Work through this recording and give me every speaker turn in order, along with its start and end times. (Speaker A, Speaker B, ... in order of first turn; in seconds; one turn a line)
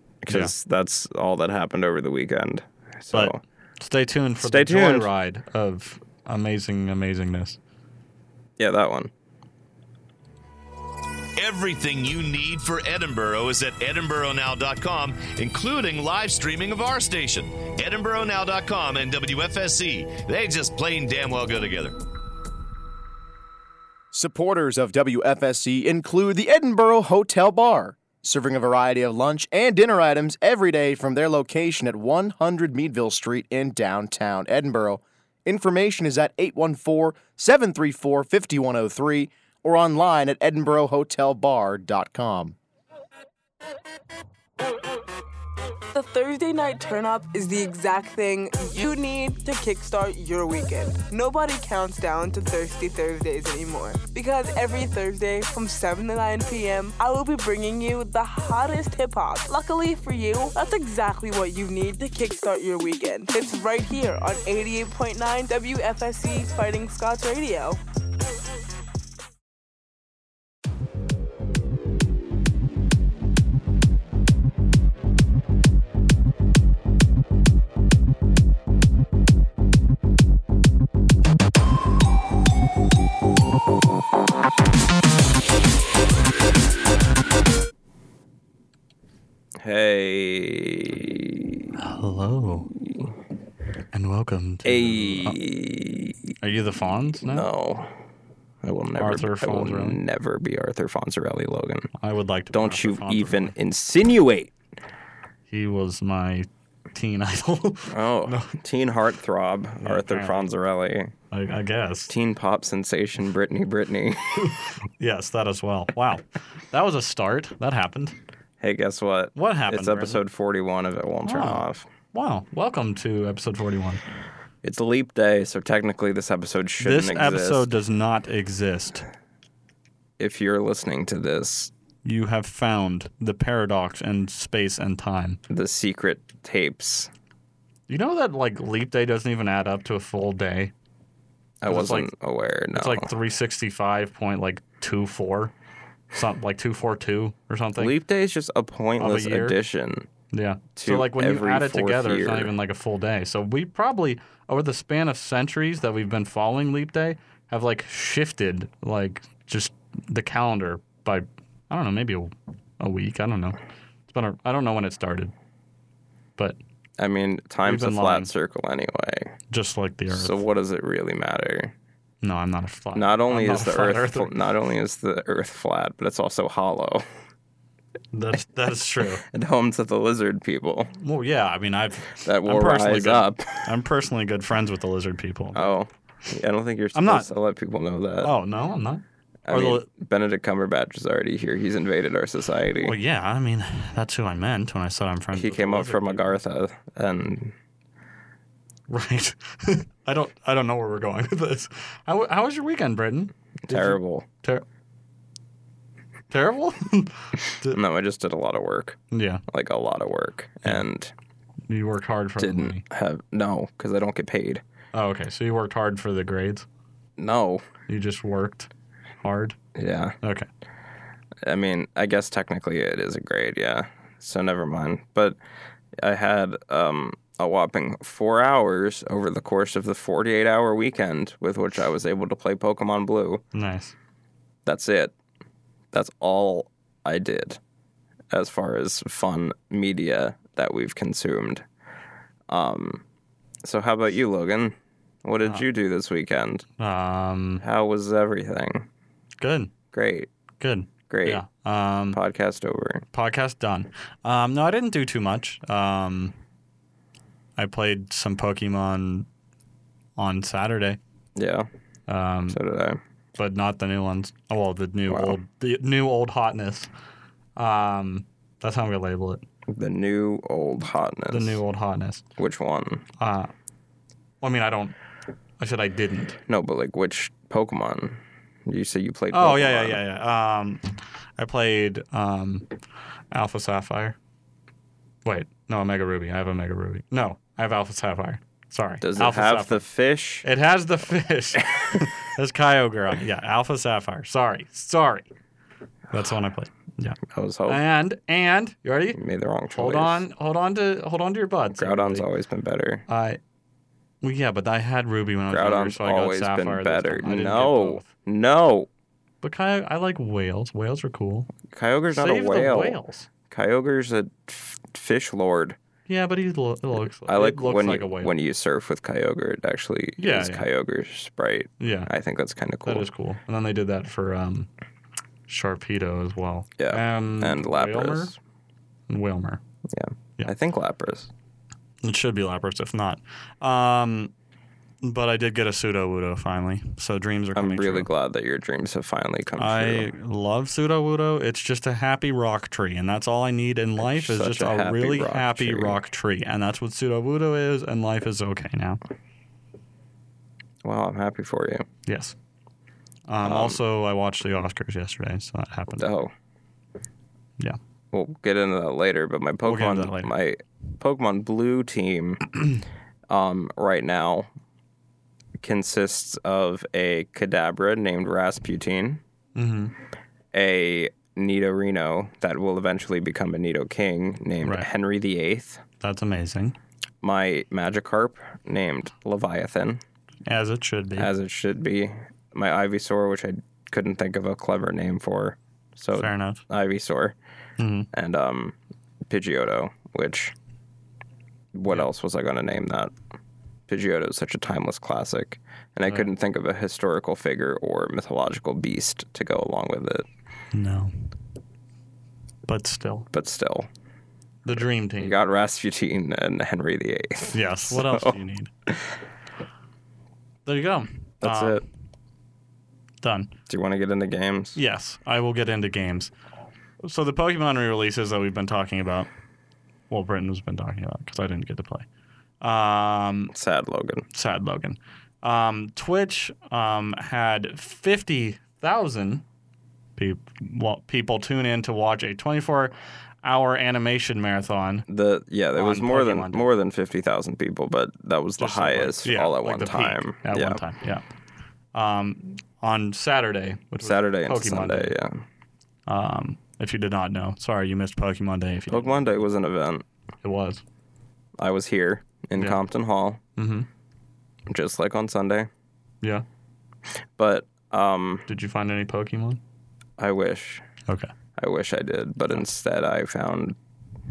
Speaker A: 0.2-3.4
Speaker B: 3.1-7.6
Speaker A: 4.4-5.1
Speaker A: 8.6-9.1
Speaker C: 11.4-21.9
Speaker D: 24.1-42.5
Speaker E: 45.9-67.8
Speaker A: 89.6-91.6
Speaker B: 91.8-92.7
Speaker B: 93.9-95.4
Speaker A: 94.6-96.3
Speaker B: 96.4-97.5
Speaker A: 97.2-97.9
Speaker A: 98.6-101.9
Speaker B: 99.0-100.0
Speaker B: 102.0-103.5
Speaker A: 102.5-104.5
Speaker B: 105.5-108.5
Speaker A: 107.9-111.1
Speaker B: 109.8-110.4
Speaker B: 111.3-112.1
Speaker A: 112.1-114.5
Speaker B: 114.4-118.1
Speaker A: 118.6-121.9
Speaker B: 119.3-120.2
Speaker B: 121.2-124.0
Speaker A: 124.6-127.7
Speaker B: 126.8-129.0
Speaker A: 130.2-131.7
Speaker B: 132.0-135.4
Speaker A: 135.5-137.1
Speaker B: 137.9-140.7
Speaker A: 141.6-143.1
Speaker B: 141.7-142.1
Speaker B: 142.7-145.5
Speaker B: 146.1-147.9
Speaker A: 147.8-150.1
Speaker B: 149.0-149.6
Speaker B: 150.3-163.6
Speaker A: 150.8-152.5
Speaker B: 164.1-165.3
Speaker A: 167.0-169.3
Speaker B: 167.6-168.3
Speaker B: 169.5-170.4
Speaker A: 170.1-171.7
Speaker B: 172.2-174.3
Speaker A: 172.9-177.0
Speaker B: 178.1-179.2
Speaker A: 179.2-180.9
Speaker B: 181.0-185.7
Speaker A: 182.2-183.8
Speaker A: 185.5-188.3
Speaker B: 186.9-187.3
Speaker B: 188.2-189.9
Speaker A: 189.4-192.9
Speaker B: 192.8-196.3
Speaker A: 195.3-197.6
Speaker B: 198.9-204.6
Speaker A: 203.6-204.3
Speaker B: 206.3-207.8
Speaker A: 207.6-211.1
Speaker B: 209.1-209.4
Speaker B: 211.7-212.8
Speaker A: 212.4-214.6
Speaker B: 214.9-216.7
Speaker A: 217.2-217.6
Speaker B: 217.9-218.7
Speaker B: 219.2-219.6
Speaker A: 219.7-220.2
Speaker B: 220.2-220.5
Speaker A: 221.4-225.4
Speaker A: 226.0-233.4
Speaker B: 233.5-233.9
Speaker A: 234.7-235.1
Speaker A: 235.9-237.6
Speaker A: 238.3-241.6
Speaker A: 242.5-243.0
Speaker A: 243.6-246.7
Speaker B: 246.8-247.6
Speaker A: 247.6-248.9
Speaker B: 249.4-249.7
Speaker A: 249.9-250.3
Speaker B: 250.6-252.2
Speaker A: 251.1-251.4
Speaker A: 252.1-253.1
Speaker B: 253.1-256.3
Speaker B: 257.6-259.3
Speaker B: 260.2-261.0
Speaker A: 261.4-261.7
Speaker B: 262.1-262.6
Speaker A: 262.5-263.0
Speaker B: 263.4-266.9
Speaker A: 265.1-265.4
Speaker B: 267.6-269.4
Speaker A: 269.7-271.6
Speaker B: 271.3-272.2
Speaker A: 272.4-273.0
Speaker B: 273.2-273.5
Speaker B: 274.4-274.9
Speaker B: 275.6-276.4
Speaker A: 276.5-280.0
Speaker B: 279.3-282.7
Speaker B: 283.3-284.1
Speaker B: 285.2-289.8
Speaker A: 289.0-290.4
Speaker B: 290.4-295.3
Speaker B: 296.1-299.2
Speaker A: 297.3-297.8
Speaker A: 299.1-300.2
Speaker B: 299.7-302.3
Speaker A: 301.7-303.1
Speaker B: 303.1-303.4
Speaker B: 304.2-308.1
Speaker A: 305.5-308.9
Speaker B: 309.4-311.5
Speaker A: 311.7-313.0
Speaker B: 312.1-313.3
Speaker A: 313.5-315.8
Speaker B: 316.1-318.3
Speaker A: 317.2-323.1
Speaker B: 320.2-320.7
Speaker B: 321.8-322.1
Speaker B: 322.8-324.7
Speaker B: 325.5-328.3
Speaker A: 326.8-328.4
Speaker B: 329.1-329.6
Speaker A: 329.9-331.3
Speaker B: 332.0-334.3
Speaker B: 335.0-338.1
Speaker A: 337.5-340.1
Speaker B: 339.6-349.0
Speaker A: 344.0-346.0
Speaker A: 350.8-351.9
Speaker B: 352.1-352.4
Speaker B: 353.3-356.1
Speaker A: 353.4-353.8
Speaker A: 356.0-356.3
Speaker A: 358.1-362.5
Speaker B: 359.6-360.3
Speaker A: 363.3-364.5
Speaker A: 365.6-369.2
Speaker B: 369.5-369.9
Speaker A: 370.5-375.8
Speaker B: 374.6-374.9
Speaker B: 376.0-376.8
Speaker A: 377.2-380.0
Speaker B: 380.4-381.3
Speaker A: 381.2-387.3
Speaker B: 386.2-386.6
Speaker B: 387.8-388.1
Speaker A: 388.1-388.8
Speaker A: 389.3-390.5
Speaker A: 391.7-393.1
Speaker A: 393.9-400.2
Speaker B: 400.7-401.1
Speaker B: 402.7-403.3
Speaker A: 403.3-403.9
Speaker B: 404.6-405.4
Speaker A: 404.8-409.0
Speaker B: 407.5-408.7
Speaker B: 410.6-411.8
Speaker A: 411.4-411.8
Speaker B: 413.2-413.5
Speaker A: 413.7-414.8
Speaker B: 414.8-416.3
Speaker B: 417.0-419.3
Speaker B: 420.1-422.1
Speaker B: 422.6-423.5
Speaker A: 423.5-424.2
Speaker B: 424.3-429.4
Speaker B: 430.2-435.1
Speaker A: 435.1-440.8
Speaker B: 435.7-436.7
Speaker B: 438.6-441.2
Speaker B: 441.9-445.1
Speaker A: 444.0-445.4
Speaker B: 446.1-449.1
Speaker A: 448.9-450.0
Speaker B: 450.4-450.8
Speaker A: 451.6-453.4
Speaker B: 453.6-453.9
Speaker A: 454.7-455.7
Speaker A: 457.4-458.4
Speaker B: 458.5-459.6
Speaker A: 460.2-460.9
Speaker A: 461.6-463.8